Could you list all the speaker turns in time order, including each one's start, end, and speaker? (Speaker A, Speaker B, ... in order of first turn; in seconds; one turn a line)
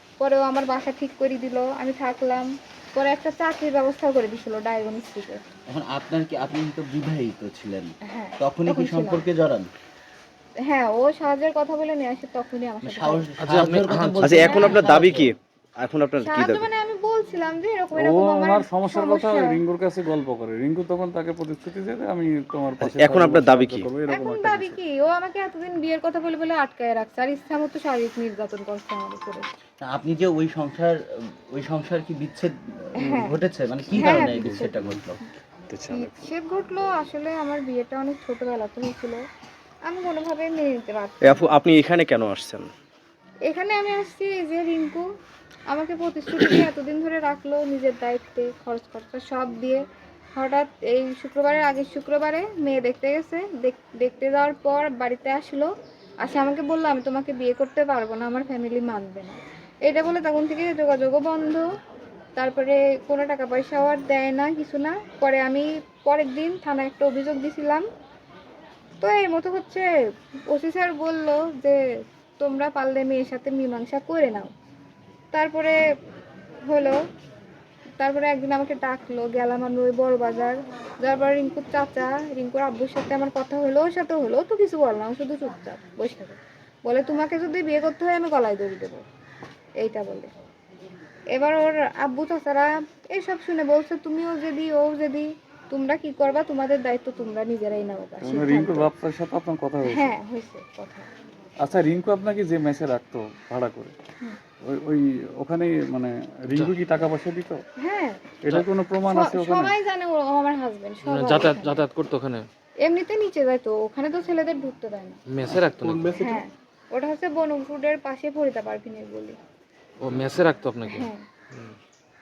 Speaker A: 0.2-5.5
Speaker B: 5.7-9.7
Speaker A: 8.0-9.2
Speaker A: 10.6-13.3
Speaker B: 12.8-15.3
Speaker C: 13.4-15.1
Speaker D: 14.2-16.7
Speaker A: 14.4-14.9
Speaker A: 16.2-19.6
Speaker E: 17.9-24.8
Speaker D: 22.8-23.9
Speaker A: 24.1-29.5
Speaker B: 29.8-35.2
Speaker A: 33.0-33.4
Speaker A: 34.0-34.8
Speaker E: 34.1-34.4
Speaker D: 35.7-36.0
Speaker A: 35.9-39.2
Speaker A: 39.9-41.5
Speaker D: 41.2-42.7
Speaker A: 43.5-45.1
Speaker A: 45.7-49.8
Speaker A: 50.4-55.7
Speaker A: 56.2-61.7
Speaker A: 62.4-67.9
Speaker A: 69.0-69.9
Speaker A: 70.5-71.8
Speaker A: 72.4-74.5
Speaker A: 75.3-75.8
Speaker A: 76.7-77.0
Speaker A: 78.0-89.0
Speaker A: 89.8-90.3
Speaker A: 91.3-98.9
Speaker E: 98.2-100.1
Speaker A: 99.9-101.1
Speaker E: 101.6-103.9
Speaker E: 104.6-107.6
Speaker A: 107.8-108.3
Speaker E: 108.4-109.8
Speaker A: 109.1-111.9
Speaker C: 111.0-112.5
Speaker A: 112.8-115.2
Speaker C: 115.3-116.3
Speaker E: 115.9-116.1
Speaker A: 116.2-119.4
Speaker C: 120.0-121.8
Speaker A: 120.9-121.2